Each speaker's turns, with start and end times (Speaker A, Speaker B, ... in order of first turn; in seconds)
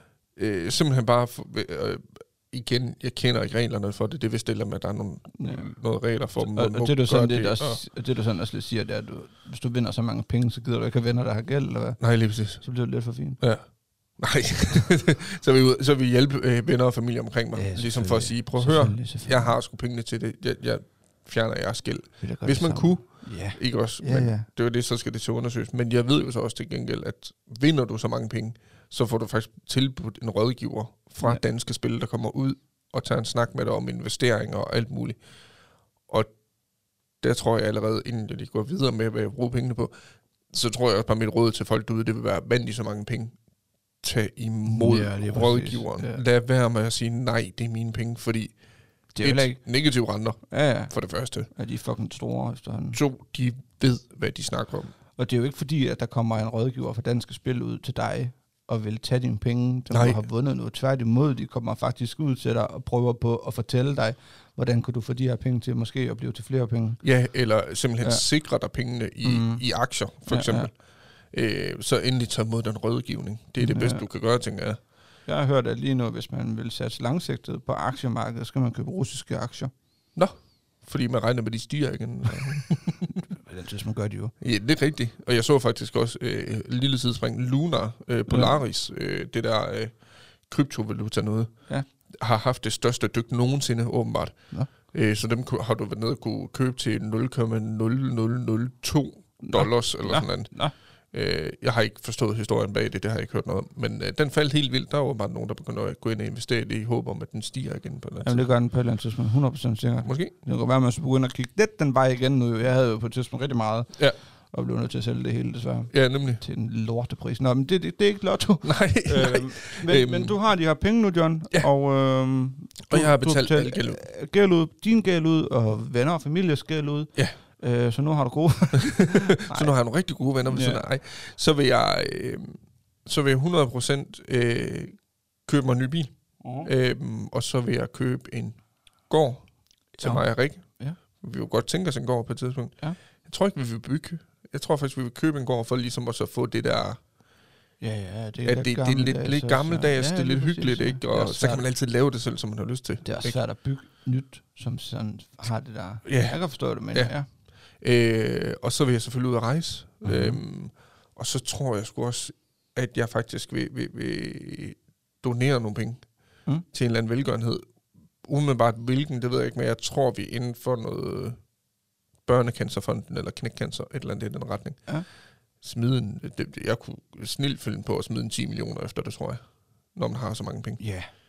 Speaker A: 0.4-7.8, 12.0-12.6, 13.4-35.2, 37.2-39.9, 40.5-43.4, 44.0-48.5, 49.2-51.5, 52.9-54.9, 59.9-60.2, 67.0-70.7, 71.3-74.8, 80.2-83.2, 84.4-90.0, 90.5-91.5, 92.1-100.5, 101.1-108.5, 110.0-110.3, 115.9-116.4, 118.6-120.3, 122.9-124.0, 128.8-138.6, 139.1-139.5, 140.0-147.0, 148.4-153.4, 156.1-156.4, 157.8-166.1, 166.7-167.7, 168.2-171.4, 172.2-174.9, 175.6-179.4, 179.9-180.8
Speaker B: 5.3-5.7, 6.4-12.0, 12.6-13.4, 17.5-19.6, 22.2-24.5, 44.7-46.2, 49.1-49.6, 50.5-51.0, 51.5-53.0, 55.2-67.0, 69.2-69.6, 70.3-70.7, 73.6-74.0, 75.3-79.7, 83.3-84.3, 88.3-88.5, 99.4-100.7, 108.2-113.9, 114.5-129.7, 130.4-130.8, 136.4-136.7, 140.0-141.0, 147.8-151.7, 153.0-157.3, 160.0-160.4, 180.8-181.1